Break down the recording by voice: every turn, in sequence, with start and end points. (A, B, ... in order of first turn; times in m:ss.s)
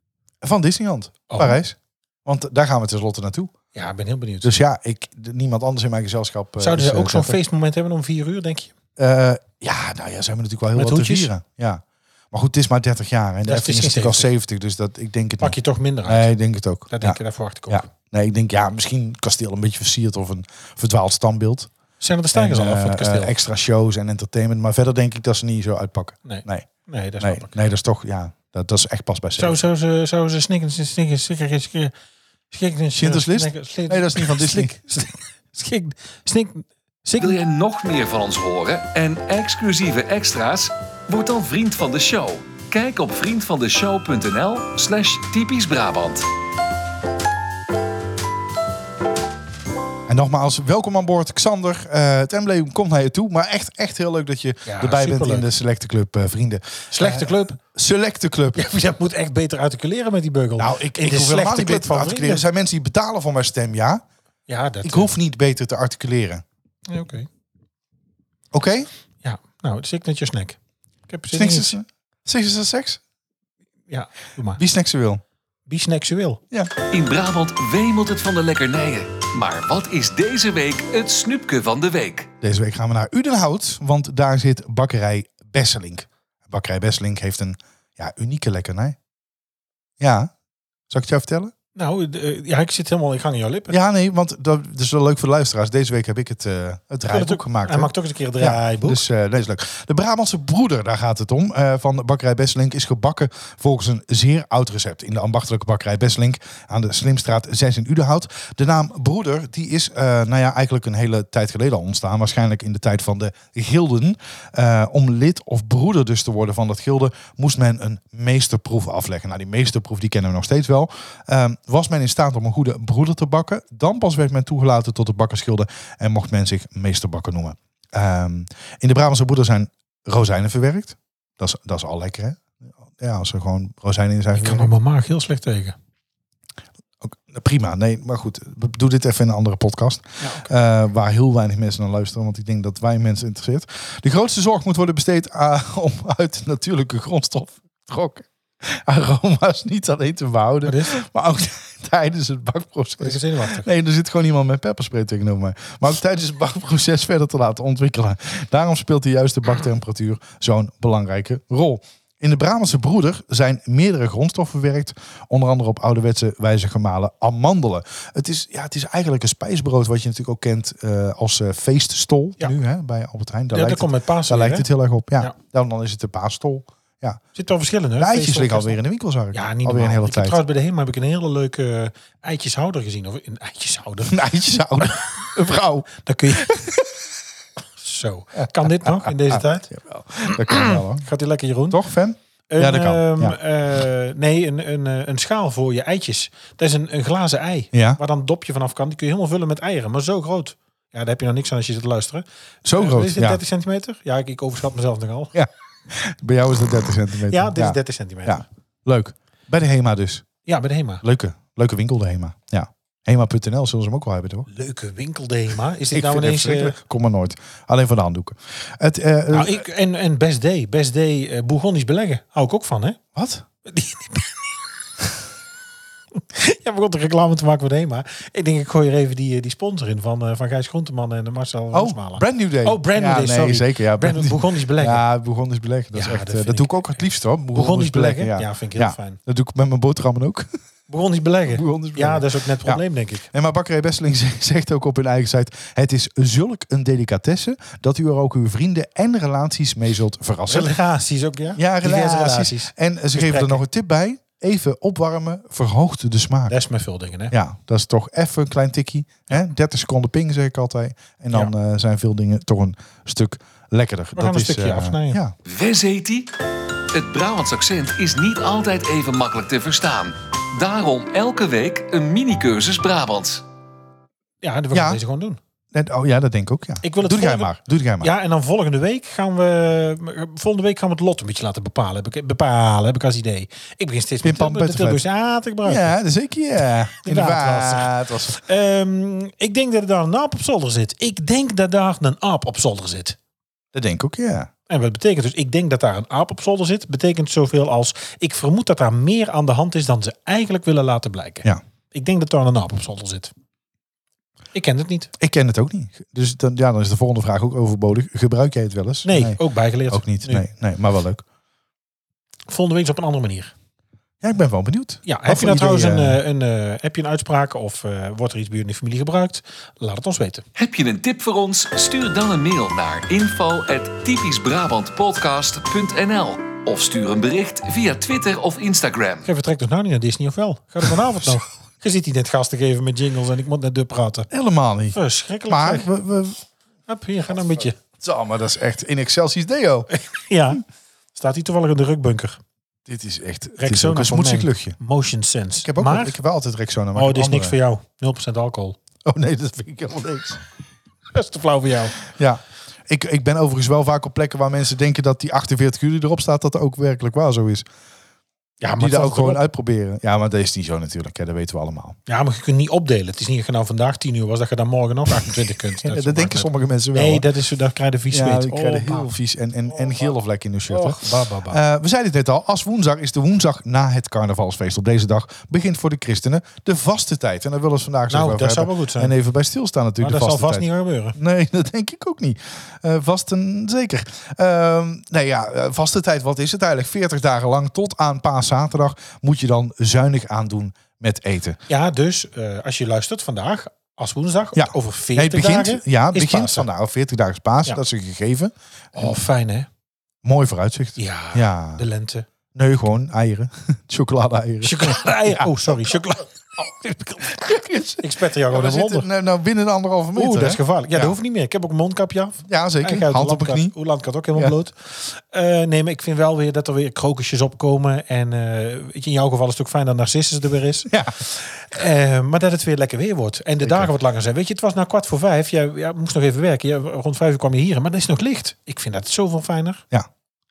0:00.4-0:03.5 A
0:01.3-0:01.6 B
0:03.8-0:04.6 B
0:04.4-0:07.4 A
0:06.6-0:08.7 B
0:09.0-0:21.7 A
0:10.8-0:11.3 B
0:13.5-0:14.3 B
0:15.4-0:16.4 B
0:16.9-0:17.9 B
0:22.0-0:23.4 B
0:22.3-0:26.7 A
0:26.2-0:27.6 B
0:27.2-0:29.6 A
0:29.4-0:31.9 B
0:32.5-0:37.4 B
0:33.0-0:34.7 A
0:37.2-0:46.3 C
0:50.1-0:58.7 A
0:54.6-0:55.5 B
0:56.9-0:57.6 B
0:58.6-1:02.4 B
1:00.6-1:04.0 A
1:04.5-1:05.2 B
1:04.8-1:06.4 A
1:06.9-1:07.3 B
1:08.5-1:08.9 A
1:09.2-1:10.6 B
1:11.1-1:11.8 B
1:11.3-1:13.0 A
1:13.9-1:14.6 B
1:14.6-1:15.2 A
1:15.7-1:16.4 B
1:16.9-1:22.3 C
1:22.4-1:29.0 A
1:30.0-1:30.3 A
1:30.9-1:31.5 A
1:31.8-1:33.8 B
1:33.7-2:14.7 A
1:37.1-1:39.0 B
2:14.3-2:15.8 B
2:17.0-2:57.2 A
2:20.2-2:20.5 B
2:30.6-2:31.0 B
2:33.0-2:33.7 B
2:53.5-2:54.7 B
2:57.4-2:58.8 B
2:58.0-3:00.4 A
2:59.3-3:04.3 B
3:04.1-3:07.0 A
3:04.8-3:05.1 B
3:06.0-3:06.7 B
3:07.8-3:09.7 B
3:08.4-3:11.1 A
3:10.3-3:11.8 B
3:11.7-3:13.4 A
3:12.5-3:25.3 B
3:17.7-3:18.0 A
3:22.6-3:23.4 A
3:25.3-3:30.3 A
3:27.3-3:28.4 B
3:30.5-3:31.0 B
3:31.0-3:34.5 A
3:34.5-3:36.8 B
3:35.9-3:39.6 A
3:39.3-3:43.0 B
3:43.2-3:43.4 A
3:43.7-3:44.6 B
3:46.2-3:55.0 B
3:51.7-4:00.5 A
3:56.0-3:57.0 B
3:57.5-3:59.2 B
4:00.9-4:03.3 B
4:01.5-4:10.7 A
4:10.5-4:13.6 B
4:11.6-4:16.6 A
4:16.5-4:17.4 B
4:17.3-4:25.3 A
4:24.2-4:25.2 B
4:25.5-4:26.3 C
4:26.9-4:33.4 C
4:34.4-4:35.4 B
4:34.7-4:35.0 A
4:35.7-4:38.1 A
4:36.8-4:46.0 B
4:44.2-4:45.0 A
4:45.6-4:48.4 A
4:47.0-4:53.2 B
4:53.7-4:54.5 A
4:54.7-5:03.3 B
5:04.5-5:05.1 B
5:05.2-5:11.2 A
5:09.0-5:10.4 B
5:12.5-5:13.5 B
5:14.2-5:16.2 A
5:15.1-5:20.4 B
5:20.6-5:29.3 C
5:29.2-5:34.3 B
5:34.3-5:36.4 A
5:34.9-5:35.9 B
5:36.9-5:37.8 B
5:38.0-5:39.9 A
5:39.9-5:42.4 B
5:42.9-5:44.8 A
5:43.6-5:46.2 B
5:45.6-5:47.6 A
5:47.0-5:48.8 B
5:49.0-5:50.4 A
5:51.1-5:52.0 B
5:52.1-5:57.7 A
5:58.6-5:59.4 B
5:58.8-6:02.0 A
6:02.1-6:09.1 B
6:05.8-6:07.3 A
6:08.1-6:31.6 A
6:10.7-6:11.6 B
6:18.1-6:19.2 B
6:20.0-6:21.2 B
6:31.7-6:36.7 B
6:34.6-6:39.2 A
6:39.0-6:39.7 B
6:40.2-6:41.8 A
6:41.0-6:42.3 B
6:42.6-6:46.0 A
6:44.6-6:46.3 B
6:46.6-6:51.2 A
6:48.0-6:49.1 B
6:50.2-7:09.8 B
6:52.5-6:53.7 A
7:00.9-7:01.2 A
7:03.6-7:03.9 A